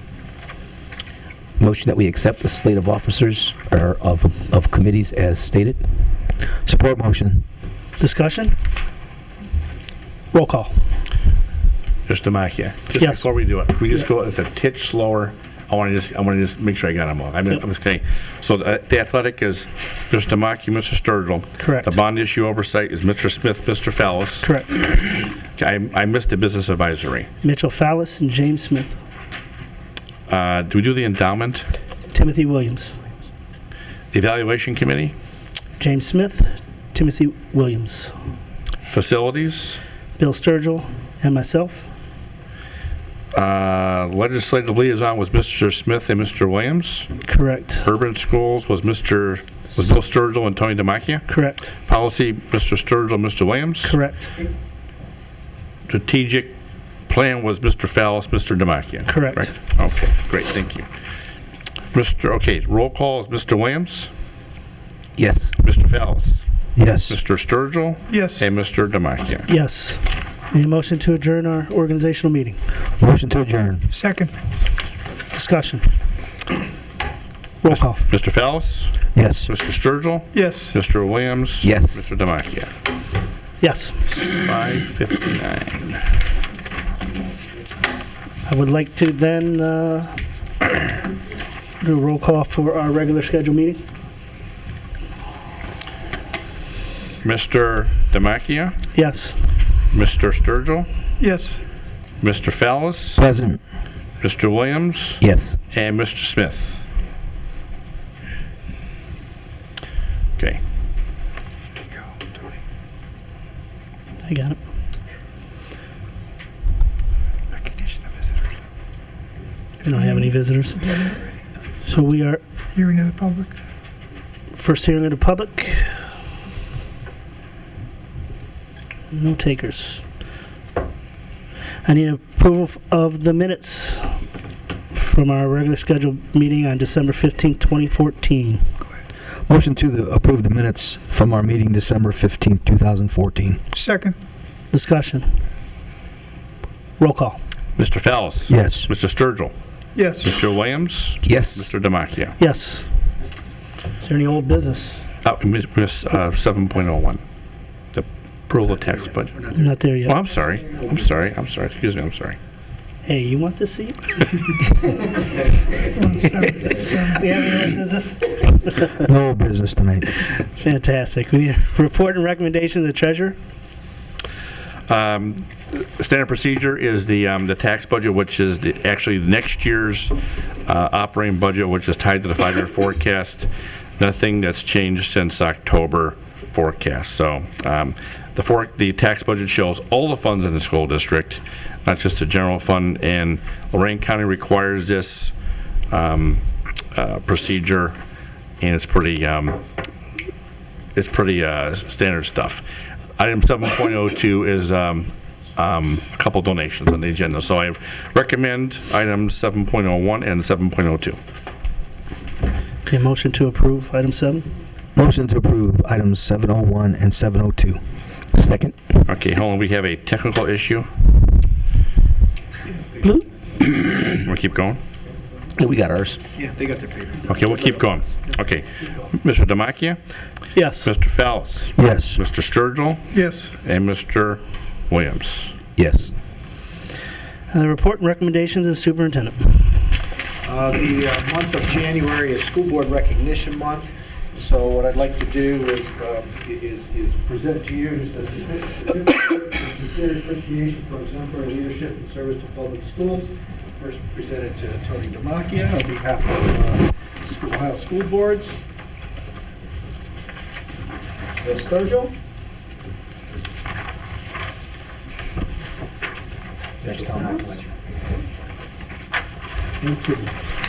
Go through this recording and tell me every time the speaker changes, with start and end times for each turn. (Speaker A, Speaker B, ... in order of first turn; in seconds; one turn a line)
Speaker A: 1.6-5.8
Speaker B: 6.6-7.4
Speaker C: 8.0-8.5
Speaker C: 10.3-10.7
Speaker D: 12.1-27.3
Speaker C: 13.0-13.2
Speaker C: 21.6-21.9
Speaker C: 24.4-24.8
Speaker C: 27.4-29.0
Speaker D: 30.3-31.7
Speaker C: 32.1-33.0
Speaker D: 34.1-35.1
Speaker C: 35.8-38.1
Speaker D: 38.9-39.8
Speaker C: 40.2-41.9
Speaker D: 43.3-47.1
Speaker C: 47.2-47.9
Speaker D: 47.8-51.3
Speaker C: 51.3-51.7
Speaker D: 51.9-54.0
Speaker C: 53.8-54.4
Speaker D: 55.9-56.5
Speaker D: 57.1-60.9
Speaker C: 59.1-59.5
Speaker D: 61.9-64.1
Speaker A: 65.2-65.5
Speaker D: 65.6-66.4
Speaker B: 66.8-67.2
Speaker D: 67.0-69.5
Speaker E: 68.1-68.5
Speaker C: 69.5-72.6
Speaker B: 73.0-73.9
Speaker E: 73.9-74.3
Speaker C: 75.3-75.9
Speaker C: 77.6-78.0
Speaker D: 77.7-82.7
Speaker B: 79.1-79.5
Speaker E: 80.3-80.7
Speaker A: 81.7-82.0
Speaker C: 83.6-84.0
Speaker D: 84.1-86.1
Speaker C: 88.5-90.2
Speaker C: 91.8-93.8
Speaker D: 97.2-98.8
Speaker C: 98.9-99.5
Speaker D: 99.9-100.9
Speaker E: 101.2-101.6
Speaker D: 102.2-103.2
Speaker B: 103.2-103.6
Speaker D: 104.2-106.8
Speaker A: 105.2-105.6
Speaker C: 114.2-114.6
Speaker E: 117.6-118.3
Speaker C: 119.8-121.0
Speaker E: 119.9-120.3
Speaker E: 120.8-121.2
Speaker C: 121.8-122.4
Speaker E: 122.7-123.5
Speaker C: 124.5-126.0
Speaker C: 129.1-130.0
Speaker C: 131.8-134.2
Speaker C: 134.9-138.7
Speaker B: 139.5-143.6
Speaker E: 143.7-144.2
Speaker C: 144.7-145.3
Speaker C: 147.0-147.4
Speaker D: 147.8-149.5
Speaker B: 148.5-148.9
Speaker E: 149.9-150.2
Speaker D: 150.1-152.4
Speaker A: 151.2-151.7
Speaker C: 152.4-152.9
Speaker C: 154.0-155.0
Speaker D: 155.2-157.2
Speaker D: 157.9-159.5
Speaker C: 159.5-160.2
Speaker D: 160.0-162.4
Speaker C: 163.0-164.3
Speaker E: 165.9-167.2
Speaker C: 167.1-169.0
Speaker B: 169.0-170.1
Speaker C: 170.4-173.4
Speaker D: 174.9-180.1
Speaker D: 180.7-195.3
Speaker D: 195.9-196.4
Speaker D: 196.9-197.9
Speaker D: 198.6-199.6
Speaker D: 200.9-202.6
Speaker D: 203.2-211.2
Speaker C: 212.9-214.5
Speaker B: 214.9-217.8
Speaker A: 218.3-218.8
Speaker D: 219.1-220.9
Speaker D: 223.6-224.8
Speaker A: 225.6-226.2
Speaker F: 226.3-227.2
Speaker D: 227.2-230.0
Speaker C: 230.5-230.9
Speaker D: 230.8-235.6
Speaker B: 231.8-232.2
Speaker E: 233.1-233.5
Speaker A: 235.8-236.1
Speaker C: 237.5-239.8
Speaker F: 240.4-258.6
Speaker F: 261.4-262.1
Speaker F: 266.8-267.7
Speaker F: 269.8-270.2